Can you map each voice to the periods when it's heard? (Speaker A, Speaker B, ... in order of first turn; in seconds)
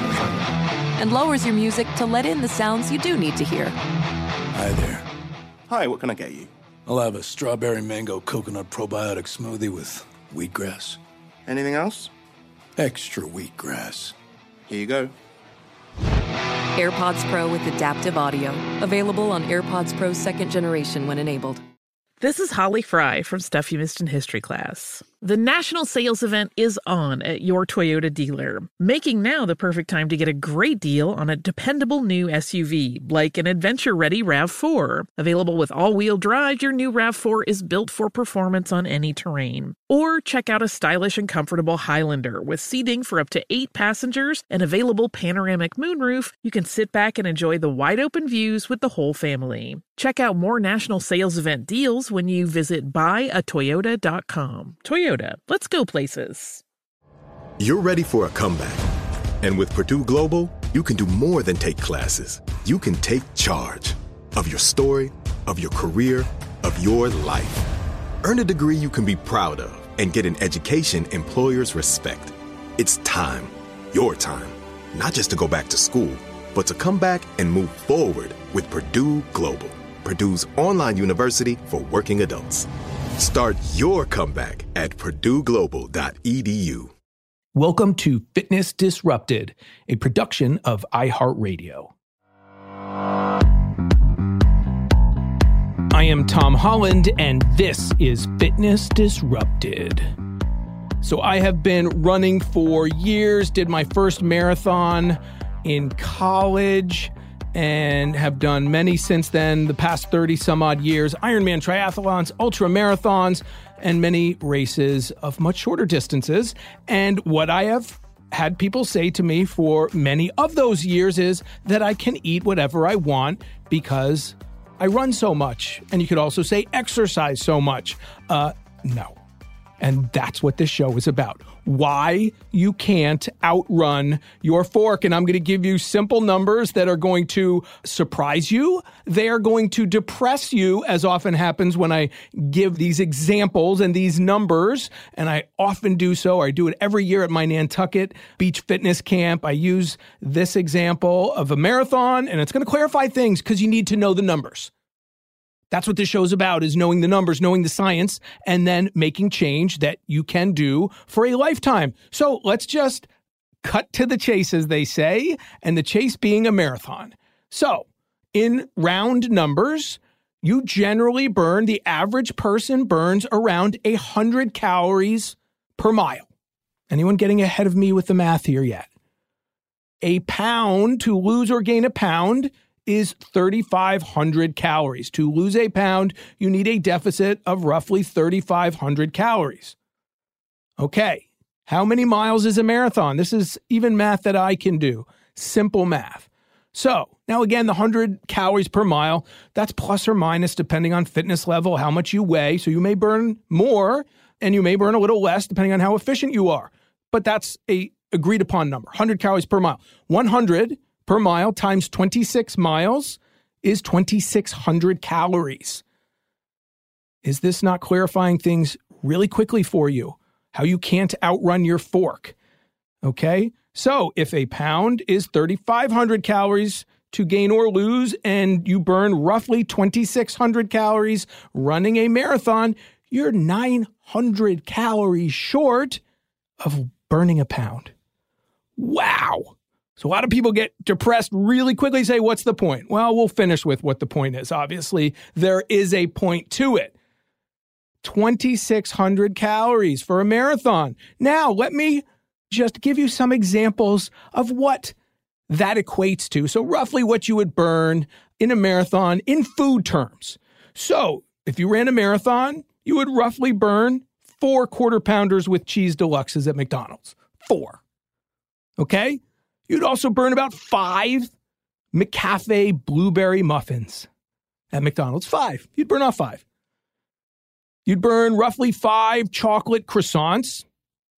Speaker A: 1.0-3.8, 16.8-21.6
Speaker B: 4.5-5.0, 6.9-11.0, 12.8-14.1
Speaker C: 5.7-6.5, 11.5-12.1, 14.7-15.2
Speaker D: 22.2-56.6
Speaker E: 57.6-58.8, 59.4-67.7, 68.2-86.9
Speaker F: 87.5-91.9, 95.9-100.1, 101.0-129.2, 129.8-154.7, 155.7-163.1, 163.6-176.3, 176.9-178.9, 180.0-189.8, 190.8-215.8, 217.2-222.3, 223.0-236.0, 236.6-237.9, 238.8-246.9, 248.0-254.9, 255.5-267.8, 268.8-271.3, 271.9-274.1, 274.7-276.4, 277.9-280.7